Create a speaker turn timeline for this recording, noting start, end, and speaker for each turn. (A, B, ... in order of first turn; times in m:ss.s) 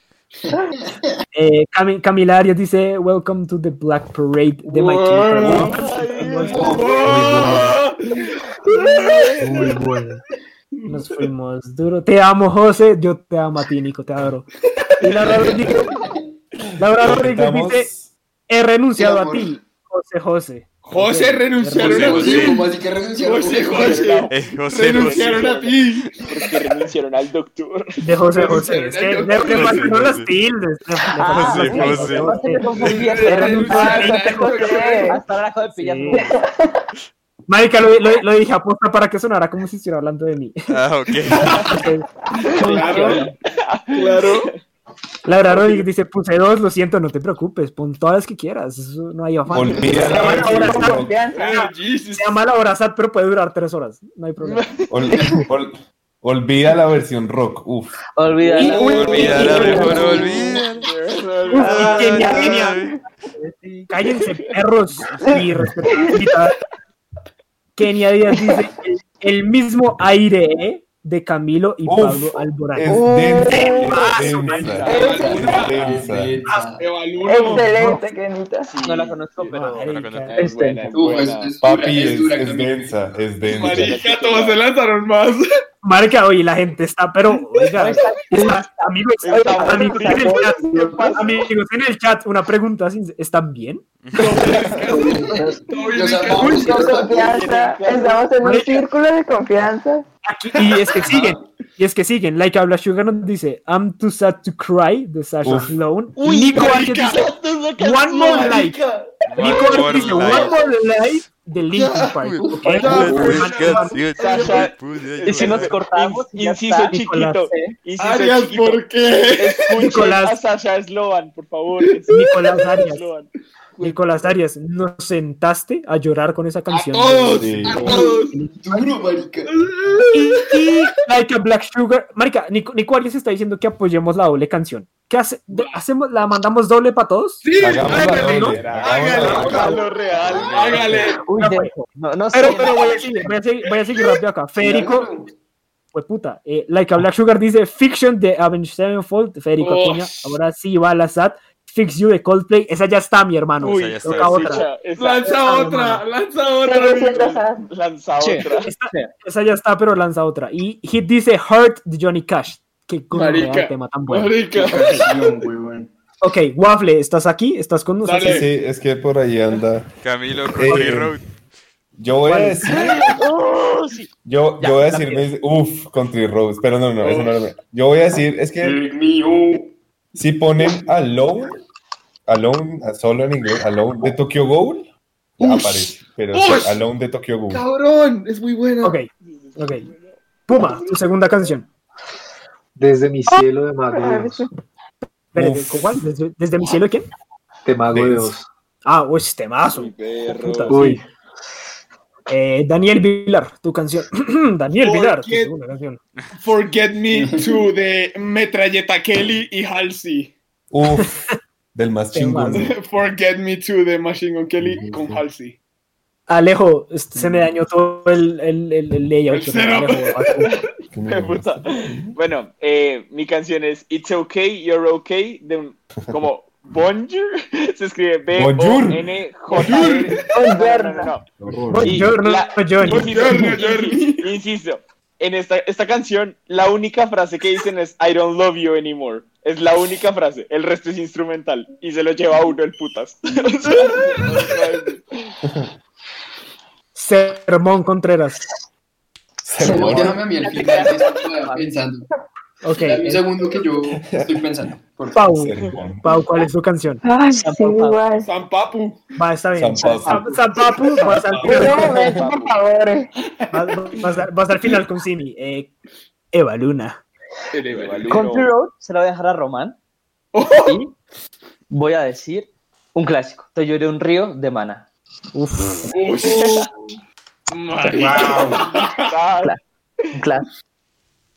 0:00.5-0:01.1 A
0:01.3-0:06.8 B
0:04.6-0:05.7 C
0:05.4-0:05.7 D
0:05.6-0:07.7 E
0:06.5-0:07.6 A
0:06.5-0:09.6 C
0:07.0-0:07.7 F
0:08.7-0:09.7 E
0:09.4-0:10.2 F
0:10.8-0:11.1 C
0:10.8-0:14.4 B
0:14.9-0:15.5 C
0:15.0-0:15.9 B
0:15.6-0:16.2 A
0:16.8-0:17.9 B
0:16.8-0:18.1 D
0:18.5-0:22.4 B
0:19.0-0:19.6 A
0:20.8-0:22.6 C
0:21.8-0:22.6 G
0:21.8-0:24.2 A
0:23.2-0:26.2 C
0:23.6-0:28.0 E
0:24.3-0:25.5 G
0:28.0-0:32.7 B
0:28.3-0:30.1 C
0:29.5-0:30.3 G
0:31.2-0:34.0 H
0:31.2-0:32.4 G
0:32.3-0:32.7 E
0:32.7-0:35.1 C
0:33.2-0:34.8 B
0:33.6-0:35.2 I
0:34.9-0:36.4 H
0:35.7-0:36.3 B
0:36.1-0:36.8 I
0:37.5-0:40.7 B
0:40.7-0:41.7 G
0:41.3-0:41.8 C
0:41.6-0:42.1 B
0:42.4-0:43.3 C
0:42.6-0:43.3 H
0:42.6-0:43.2 B
0:43.4-0:44.6 E
0:43.9-0:44.5 C
0:45.2-0:54.6 B
0:49.5-0:51.2 D
0:50.0-0:51.5 I
0:51.3-0:52.4 C
0:54.4-0:54.9 E
0:54.9-0:58.0 D
0:55.1-0:55.5 A
0:58.2-1:00.2 H
0:58.5-1:02.6 C
0:58.6-1:00.5 A
0:59.0-1:00.9 G
0:59.1-1:02.4 E
1:01.5-1:02.8 B
1:01.9-1:02.6 I
1:02.2-1:03.0 G
1:03.9-1:06.5 B
1:07.8-1:13.1 B
1:11.8-1:16.4 D
1:12.9-1:14.2 I
1:13.7-1:16.0 C
1:13.7-1:14.9 B
1:14.6-1:15.2 E
1:14.8-1:16.8 A
1:16.8-1:17.7 C
1:17.2-1:18.7 I
1:17.5-1:18.0 B
1:18.6-1:19.6 E
1:18.8-1:21.1 H
1:19.5-1:20.5 B
1:19.8-1:20.6 G
1:20.3-1:21.6 E
1:20.9-1:22.9 A
1:21.6-1:24.0 D
1:23.4-1:25.4 C
1:23.4-1:24.6 E
1:25.8-1:33.8 B
1:27.8-1:28.7 H
1:29.2-1:31.4 E
1:29.3-1:31.2 I
1:34.0-1:34.4 G
1:34.1-1:36.9 C
1:34.8-1:37.4 A
1:34.9-1:35.6 F
1:36.3-1:40.1 I
1:37.0-1:38.3 E
1:38.4-1:38.8 B
1:40.2-1:48.8 B
1:41.0-1:41.4 A
1:45.4-1:45.8 D
1:46.2-1:47.3 C
1:46.2-1:48.7 E
1:48.1-1:50.3 C
1:49.3-1:51.2 G
1:49.4-1:50.7 E
1:49.4-1:54.0 B
1:51.7-1:53.4 A
1:52.7-1:54.7 C
1:52.8-1:55.8 G
1:54.2-1:54.7 A
1:54.2-1:54.7 E
1:55.2-1:57.0 H
1:55.2-1:58.8 E
1:55.3-1:55.7 C
1:56.9-1:57.5 B
1:58.0-1:59.8 C
1:59.4-2:02.1 E
1:59.8-2:00.4 B
2:01.8-2:02.3 C
2:02.1-2:03.1 B
2:02.8-2:04.3 E
2:03.8-2:08.8 B
2:06.7-2:08.3 C
2:07.4-2:07.8 D
2:07.6-2:09.5 A
2:09.4-2:10.6 C
2:10.1-2:17.4 B
2:15.5-2:15.8 C
2:17.4-2:20.0 C
2:17.6-2:19.7 D
2:17.8-2:21.0 E
2:17.9-2:18.6 B
2:19.2-2:19.8 B
2:20.2-2:21.0 G
2:20.5-2:21.2 C
2:21.2-2:23.0 H
2:21.4-2:21.7 B
2:22.3-2:25.1 B
2:22.4-2:23.2 C
2:24.6-2:25.3 A
2:25.9-2:34.7 B
2:29.6-2:30.3 C
2:33.6-2:34.6 G
2:33.6-2:35.4 E
2:35.0-2:37.3 C
2:35.2-2:36.0 B
2:36.6-2:37.7 I
2:37.1-2:38.7 E
2:38.2-2:39.1 H
2:38.6-2:44.4 B
2:43.1-2:45.2 C
2:44.5-2:45.9 A
2:46.2-2:48.4 B
2:48.0-2:48.5 C
2:48.2-2:49.9 D
2:50.0-2:51.3 G
2:50.4-2:51.2 D
2:52.0-2:53.0 D
2:52.3-2:52.6 B
2:54.2-2:58.8 D
2:54.6-2:55.2 H
2:57.0-2:57.4 C
2:58.6-2:59.7 A
3:00.1-3:01.6 D
3:02.3-3:07.6 D
3:05.4-3:06.8 C
3:07.5-3:09.0 C
3:08.8-3:09.9 B
3:09.2-3:11.3 E
3:10.5-3:11.7 B
3:12.8-3:14.5 F
3:13.3-3:14.5 I
3:15.3-3:17.1 B
3:15.3-3:16.0 D
3:17.6-3:18.5 F
3:17.9-3:18.3 D
3:18.8-3:21.0 B
3:19.7-3:21.0 E
3:20.7-3:21.0 F
3:22.3-3:26.0 B
3:24.8-3:25.5 C
3:26.4-3:30.3 C
3:27.1-3:27.6 A
3:30.7-3:31.2 D
3:31.7-3:32.7 D
3:32.1-3:32.7 B
3:32.6-3:35.6 C
3:34.6-3:35.2 D
3:36.3-3:40.6 B
3:39.3-3:40.6 C
3:40.9-3:42.1 D
3:41.1-3:51.2 E
3:48.3-3:49.0 D
3:49.5-3:50.3 C
3:50.3-3:51.1 I
3:51.4-3:51.9 D
3:51.4-3:52.1 F
3:51.7-3:53.2 B
3:51.9-4:05.3 E
3:52.8-3:54.3 C
4:06.9-4:08.5 B
4:09.4-4:10.2 D
4:09.6-4:12.1 A
4:09.6-4:11.8 H
4:12.6-4:13.2 B
4:12.7-4:15.3 A
4:13.9-4:14.8 D
4:15.1-4:17.0 B
4:15.3-4:16.0 D
4:17.0-4:18.3 I
4:17.4-4:18.0 H
4:18.2-4:19.0 C
4:19.2-4:21.9 B
4:19.5-4:20.2 D
4:20.0-4:20.3 C
4:21.0-4:21.8 C
4:21.4-4:23.1 I
4:21.5-4:22.3 D
4:21.5-4:22.6 E
4:23.5-4:25.7 B
4:26.3-4:27.0 B
4:27.5-4:28.3 C
4:27.7-4:28.5 E
4:28.1-4:29.8 H
4:30.3-4:30.8 C
4:30.6-4:30.9 H
4:31.7-4:34.8 H
4:35.3-4:35.9 B
4:35.9-4:36.7 C
4:36.2-4:36.6 E
4:37.5-4:39.1 C
4:37.9-4:38.5 H
4:39.0-4:39.5 E
4:40.1-4:40.5 H